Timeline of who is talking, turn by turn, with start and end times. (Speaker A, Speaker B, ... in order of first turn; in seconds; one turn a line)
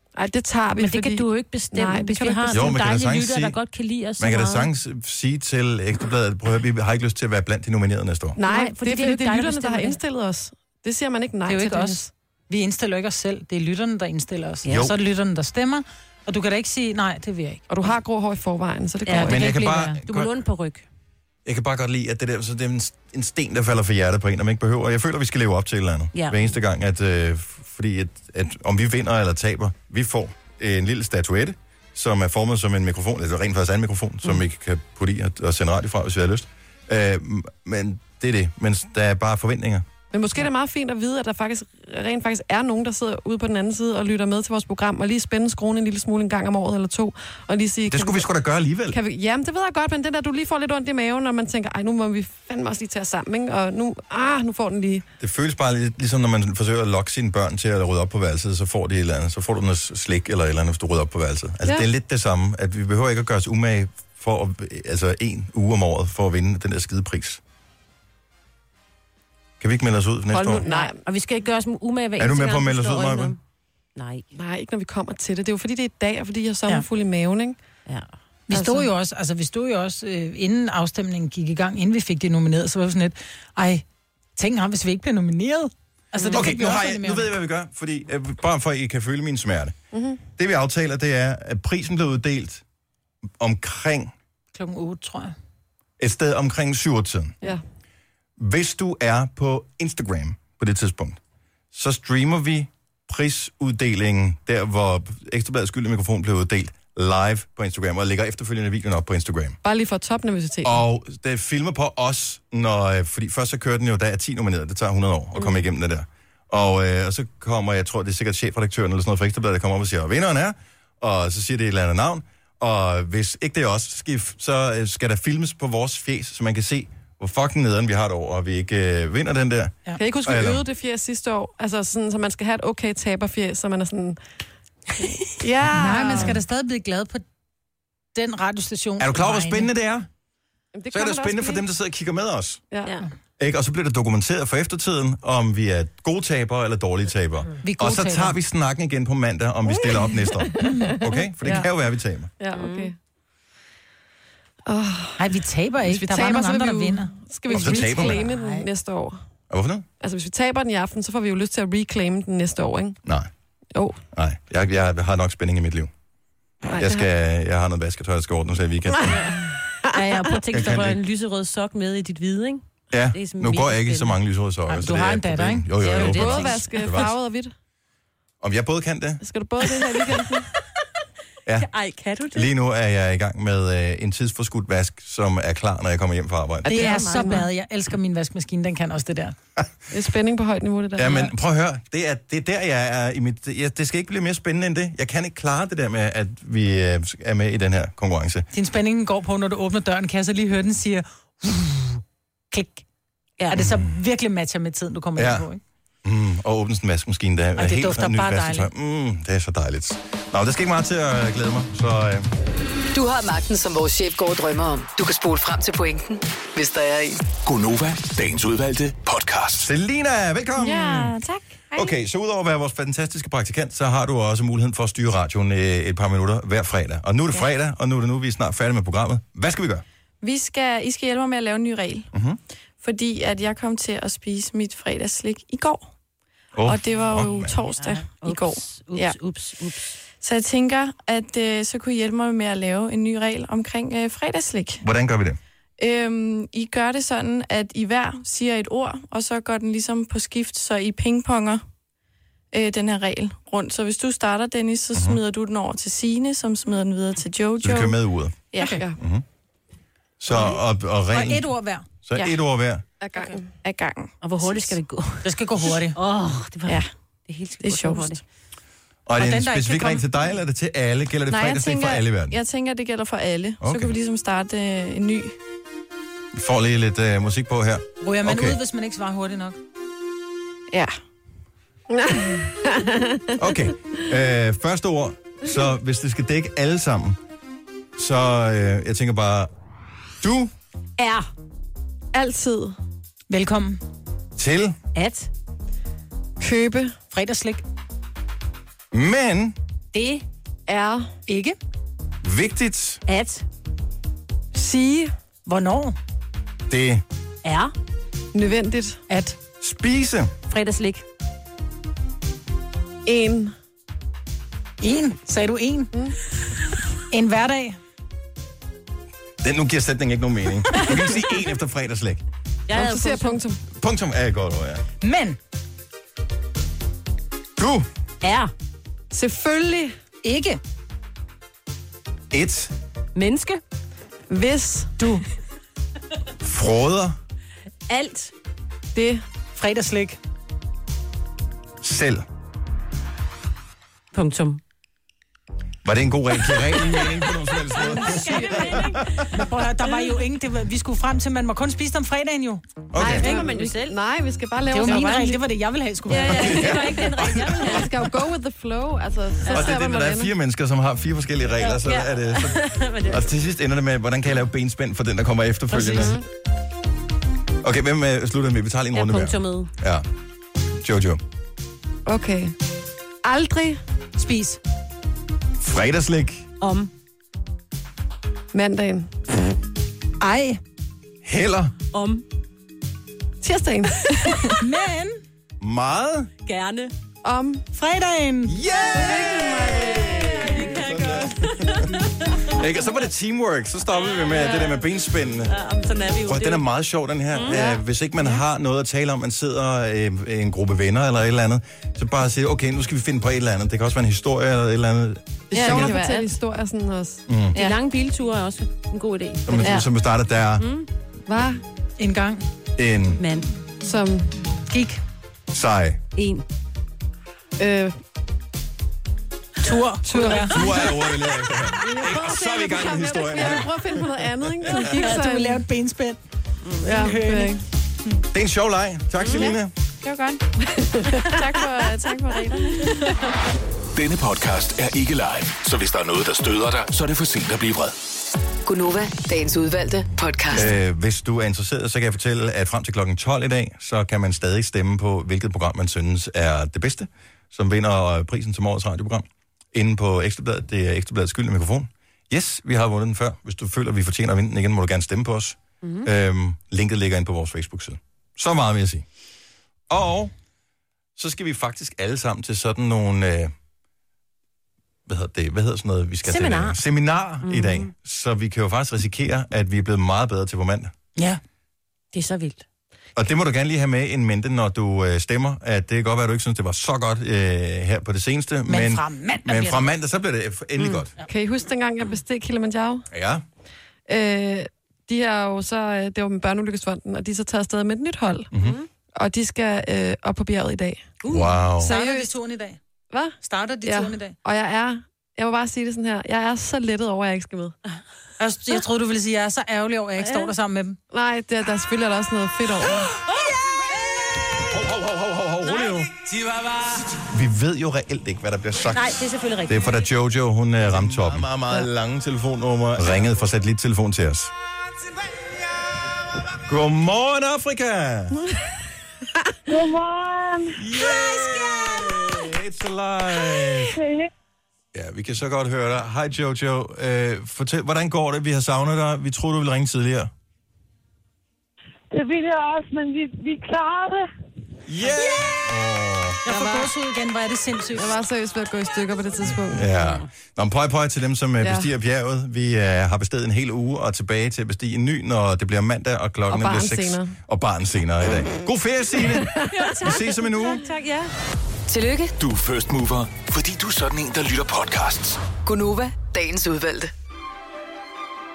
Speaker A: 0.1-2.7
Speaker B: 0.8-4.7
Speaker C: 2.5-3.6
Speaker C: 4.2-8.4
Speaker A: 8.3-12.1
Speaker B: 8.4-10.0
Speaker D: 11.5-17.6
Speaker C: 14.7-14.9
Speaker A: 17.7-19.4
Speaker B: 19.0-19.4
Speaker D: 19.2-20.0
Speaker C: 19.2-20.3
Speaker B: 20.1-20.8
Speaker C: 21.4-39.9
Speaker B: 26.1-26.5
Speaker A: 40.1-48.3
Speaker C: 47.9-49.0
Speaker A: 48.9-55.0
Speaker C: 55.2-67.4
Speaker C: 69.6-70.7
Speaker A: 70.3-71.0
Speaker B: 70.5-73.4
Speaker C: 72.2-73.3
Speaker B: 74.0-74.2
Speaker A: 74.3-77.6
Speaker B: 77.8-78.1
Speaker D: 78.5-83.8
Speaker A: 78.5-78.8
Speaker D: 84.3-87.3
Speaker B: 86.1-86.4
Speaker C: 86.3-89.8
Speaker A: 89.9-90.2
Speaker C: 90.4-92.6
Speaker C: 93.4-94.1
Speaker D: 94.5-95.3
Speaker C: 96.0-97.4
Speaker C: 98.4-101.2
Speaker C: 101.7-109.6
Speaker A: 109.6-110.8
Speaker C: 110.6-130.6
Speaker A: 130.0-134.2
Speaker A: 135.2-136.4
Speaker D: 135.7-137.2
Speaker D: 138.1-139.7
Speaker C: 139.0-140.1
Speaker A: 140.7-141.6
Speaker C: 140.9-142.6
Speaker C: 143.4-152.3
Speaker D: 147.6-148.3
Speaker A: 150.4-151.7
Speaker D: 150.6-151.0
Speaker A: 152.4-152.9
Speaker B: 152.5-152.9
Speaker A: 154.7-155.3
Speaker D: 155.2-158.7
Speaker A: 155.8-159.2
Speaker C: 157.5-158.2
Speaker C: 159.5-159.8
Speaker A: 160.0-163.0
Speaker C: 164.1-165.9
Speaker A: 166.7-167.0
Speaker C: 166.8-169.4
Speaker B: 169.8-174.2
Speaker C: 170.5-171.0
Speaker C: 172.9-177.1
Speaker D: 174.7-176.0
Speaker B: 175.8-177.0
Speaker A: 175.9-177.5
Speaker C: 178.4-179.2
Speaker A: 179.2-180.5
Speaker B: 181.6-182.5
Speaker C: 182.3-186.9
Speaker D: 186.6-189.3
Speaker B: 186.7-187.5
Speaker A: 189.9-191.3
Speaker C: 191.0-198.5
Speaker D: 198.5-202.8
Speaker D: 203.5-205.6
Speaker C: 203.6-203.8
Speaker C: 205.2-205.5
Speaker C: 206.0-212.3
Speaker D: 207.6-208.7
Speaker E: 212.9-217.3
Speaker F: 217.4-219.7
Speaker C: 219.6-221.2
Speaker G: 220.6-221.9
Speaker C: 221.7-229.8
Speaker G: 230.2-232.1
Speaker C: 232.1-232.4
Speaker G: 232.8-235.9
Speaker C: 236.5-237.5
Speaker G: 236.6-239.2
Speaker B: 237.8-239.9
Speaker G: 240.1-244.8
Speaker C: 244.8-245.4
Speaker G: 245.8-251.6
Speaker G: 252.5-258.0
Speaker C: 254.9-255.2
Speaker C: 257.6-258.4
Speaker G: 258.5-258.9
Speaker A: 258.6-258.9
Speaker C: 259.0-259.2
Speaker C: 260.2-261.5
Speaker D: 261.1-261.8
Speaker C: 262.0-262.8
Speaker A: 263.0-263.5
Speaker G: 263.1-264.8
Speaker B: 264.2-265.3
Speaker D: 265.2-265.9
Speaker B: 265.8-268.2
Speaker G: 267.6-268.1
Speaker C: 269.1-272.4
Speaker D: 269.2-270.1
Speaker G: 271.3-275.3
Speaker C: 273.6-273.9
Speaker C: 276.3-278.6
Speaker D: 278.0-279.6
Speaker G: 282.0-282.9
Speaker C: 283.4-287.2
Speaker C: 287.9-289.5
Speaker C: 290.2-290.5
Speaker B: 291.0-291.3
Speaker A: 292.1-292.8
Speaker D: 293.3-293.8
Speaker C: 294.4-294.8
Speaker B: 294.9-295.3
Speaker A: 296.4-296.9
Speaker D: 297.1-297.6
Speaker C: 298.9-299.6
Speaker D: 299.9-300.2
Speaker A: 300.7-301.1
Speaker D: 301.3-301.6
Speaker C: 302.2-303.0
Speaker B: 303.1-303.4
Speaker A: 304.5-305.1
Speaker D: 305.4-305.9
Speaker C: 306.7-307.0
Speaker B: 307.4-307.7
Speaker A: 308.3-309.0
Speaker D: 309.1-309.4
Speaker C: 309.6-310.3
Speaker B: 310.5-311.0
Speaker A: 313.0-313.5
Speaker D: 314.8-315.9
Speaker D: 317.1-317.8
Speaker C: 319.4-322.2
Speaker B: 322.7-323.4
Speaker A: 322.7-323.6
Speaker C: 323.8-324.8
Speaker D: 325.0-325.4
Speaker C: 327.6-327.9
Speaker B: 328.2-328.5
Speaker A: 329.1-329.9
Speaker D: 330.2-330.6
Speaker C: 332.3-332.7
Speaker B: 333.1-333.6
Speaker A: 334.3-335.2
Speaker C: 336.4-337.2
Speaker B: 337.9-338.3
Speaker A: 338.9-339.2
Speaker D: 339.6-340.2
Speaker C: 341.8-342.2
Speaker B: 344.1-344.6
Speaker C: 345.8-349.3
Speaker B: 347.8-349.2
Speaker A: 347.8-348.8
Speaker D: 349.3-352.6
Speaker C: 352.9-353.4
Speaker B: 352.9-354.0
Speaker A: 353.1-355.4
Speaker D: 353.1-353.5
Speaker D: 354.7-356.8
Speaker B: 356.1-357.9
Speaker C: 356.3-358.1
Speaker A: 357.6-360.3
Speaker C: 359.4-366.2
Speaker B: 359.4-359.7
Speaker B: 361.6-363.3
Speaker B: 365.7-366.2
Speaker C: 367.6-370.1
Speaker B: 368.9-369.7
Speaker C: 370.8-371.2
Speaker A: 372.1-372.5
Speaker A: 373.2-373.8
Speaker D: 374.1-374.6
Speaker C: 375.6-376.5
Speaker B: 376.6-376.9
Speaker A: 378.5-379.1
Speaker D: 380.2-380.6
Speaker C: 381.2-381.7
Speaker B: 381.9-382.2
Speaker A: 383.4-384.6
Speaker D: 384.6-385.2
Speaker C: 385.6-386.3
Speaker B: 386.4-386.9
Speaker A: 387.2-387.6
Speaker D: 387.7-388.6
Speaker C: 388.5-395.5
Speaker B: 389.0-392.6
Speaker A: 389.2-389.6
Speaker B: 394.0-394.9
Speaker B: 395.4-396.6
Speaker C: 396.2-406.0
Speaker B: 397.3-397.7
Speaker A: 405.5-407.2
Speaker G: 405.5-406.3
Speaker B: 405.6-406.0
Speaker C: 407.3-407.6
Speaker B: 407.5-409.8
Speaker C: 409.5-410.6
Speaker B: 410.6-410.9
Speaker A: 411.3-411.6
Speaker D: 412.0-412.4
Speaker C: 412.8-413.2
Speaker B: 413.1-413.5
Speaker A: 413.8-414.3
Speaker D: 414.7-415.0
Speaker C: 415.5-416.0
Speaker B: 416.1-416.4
Speaker A: 417.6-417.9
Speaker D: 419.6-420.8
Speaker A: 420.0-420.9
Speaker C: 420.3-425.0
Speaker A: 421.7-425.6
Speaker D: 424.8-426.2
Speaker B: 426.6-427.1
Speaker D: 426.8-427.6
Speaker A: 426.8-427.6
Speaker C: 428.3-429.7
Speaker B: 429.2-429.5
Speaker G: 430.0-430.4
Speaker A: 430.9-433.0
Speaker G: 431.3-432.8
Speaker F: 433.9-437.9
Speaker E: 438.6-440.7
Speaker C: 440.5-459.0
Speaker B: 455.8-456.1
Speaker C: 459.9-460.3
Speaker C: 461.1-463.5
Speaker C: 465.1-470.9
Speaker B: 466.2-466.8
Speaker B: 467.4-467.9
Speaker B: 472.1-472.6
Speaker C: 473.1-481.1
Speaker D: 478.7-479.9
Speaker B: 480.8-481.0
Speaker A: 481.2-483.1
Speaker C: 483.1-483.4
Speaker A: 484.1-488.5
Speaker C: 488.5-488.8
Speaker B: 488.5-488.9
Speaker A: 489.1-491.1
Speaker B: 491.2-491.6
Speaker C: 491.3-491.9
Speaker A: 491.8-492.3
Speaker D: 491.8-492.8
Speaker A: 493.1-497.8
Speaker D: 493.4-494.4
Speaker D: 498.4-501.0
Speaker B: 500.2-500.5
Speaker A: 501.1-503.1
Speaker C: 504.5-506.2
Speaker C: 507.2-514.5
Speaker B: 508.9-509.9
Speaker C: 516.5-518.5
Speaker H: 519.7-520.8
Speaker C: 520.7-524.0
Speaker H: 524.0-524.2
Speaker C: 524.9-530.3
Speaker H: 532.1-534.1
Speaker C: 534.9-536.4
Speaker D: 536.4-538.2
Speaker A: 536.5-536.9
Speaker A: 537.9-539.9
Speaker C: 539.7-550.8
Speaker A: 541.6-541.9
Speaker A: 546.5-547.3
Speaker B: 549.7-551.3
Speaker E: 551.9-552.3
Speaker F: 552.4-555.4
Speaker E: 555.6-557.1